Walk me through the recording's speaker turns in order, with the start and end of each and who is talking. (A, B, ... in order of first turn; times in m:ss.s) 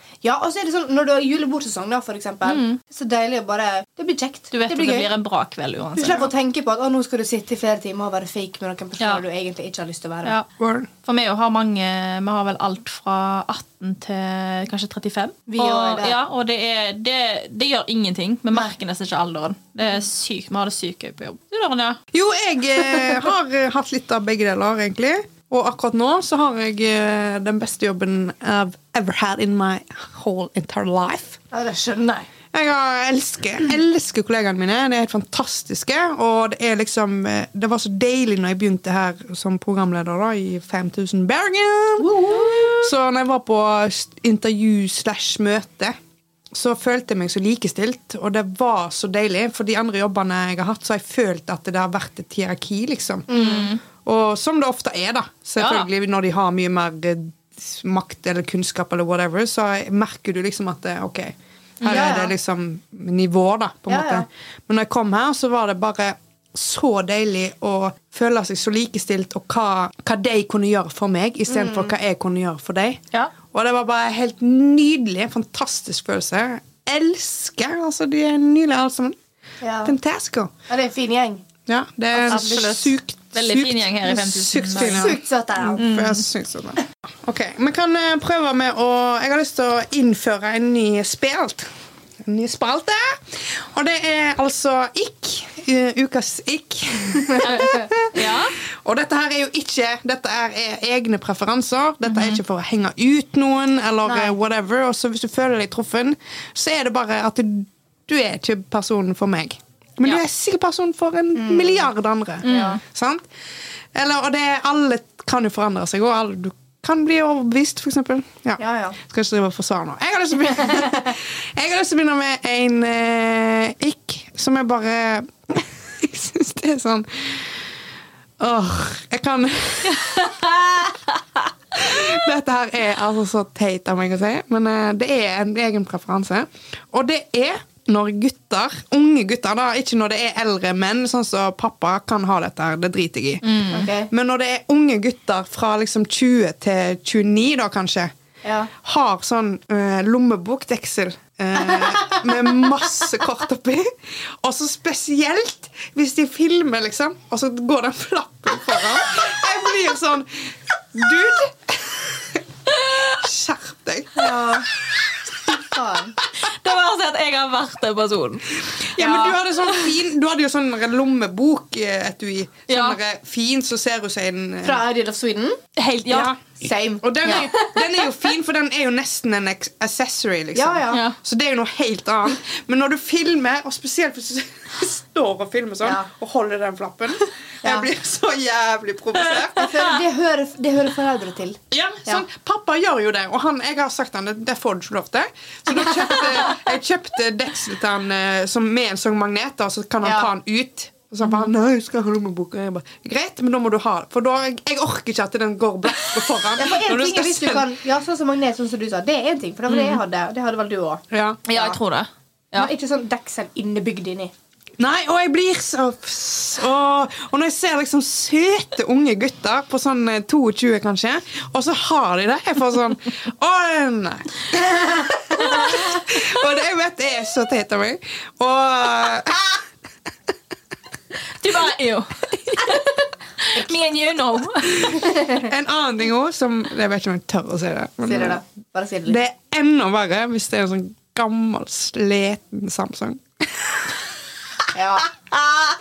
0:00.2-0:05.1 A
0:02.4-0:02.8 B
0:04.5-0:06.3 B
0:06.0-0:10.3 A
0:10.6-0:10.9 C
0:11.0-0:22.0 B
0:15.5-0:16.2 A
0:22.1-0:31.4 C
0:31.5-0:32.3 A
0:32.5-0:45.9 C
0:42.0-0:42.9 A
0:46.5-0:53.3 C
0:53.3-0:53.7 A
0:53.3-0:53.8 B
0:54.0-1:19.2 C
0:55.6-0:55.9 B
1:01.8-1:02.2 B
1:01.9-1:02.3 A
1:03.9-1:04.2 A
1:11.5-1:11.9 A
1:19.6-1:19.9 A
1:19.8-1:20.5 C
1:20.7-1:21.4 A
1:21.6-1:31.7 C
1:22.1-1:25.2 B
1:24.8-1:25.8 A
1:25.8-1:26.2 B
1:32.2-1:53.2 C
1:37.4-1:38.6 B
1:42.0-1:42.4 B
1:44.0-1:44.4 A
1:51.3-1:51.9 A
1:52.4-1:52.8 A
1:52.4-1:52.8 B
1:53.9-2:07.8 C
1:58.6-1:59.0 A
2:08.4-2:11.0 C
2:09.9-2:10.3 B
2:11.7-2:28.1 C
2:23.4-2:23.9 B
2:23.7-2:24.1 A
2:28.4-2:28.7 A
2:28.8-2:45.4 C
2:44.1-2:44.7 A
2:45.6-2:46.2 A
2:46.4-2:49.9 B
2:48.7-2:54.8 C
2:49.0-2:49.3 A
2:52.7-2:53.0 B
2:54.6-2:55.6 A
2:55.8-2:56.3 B
2:56.1-2:56.4 C
2:56.6-2:58.1 A
2:57.0-3:09.7 C
3:00.5-3:01.0 A
3:00.9-3:01.2 B
3:07.6-3:07.9 A
3:09.4-3:09.8 B
3:09.6-3:12.2 A
3:11.7-3:27.7 C
3:20.0-3:20.3 A
3:26.5-3:31.8 A
3:29.7-3:30.0 B
3:31.1-3:31.4 C
3:31.5-3:32.7 B
3:32.5-3:34.3 A
3:34.8-3:49.6 C
3:51.4-3:55.3 B
3:54.9-3:58.4 C
3:58.0-3:59.2 A
3:59.1-4:03.9 C
4:04.7-4:05.1 A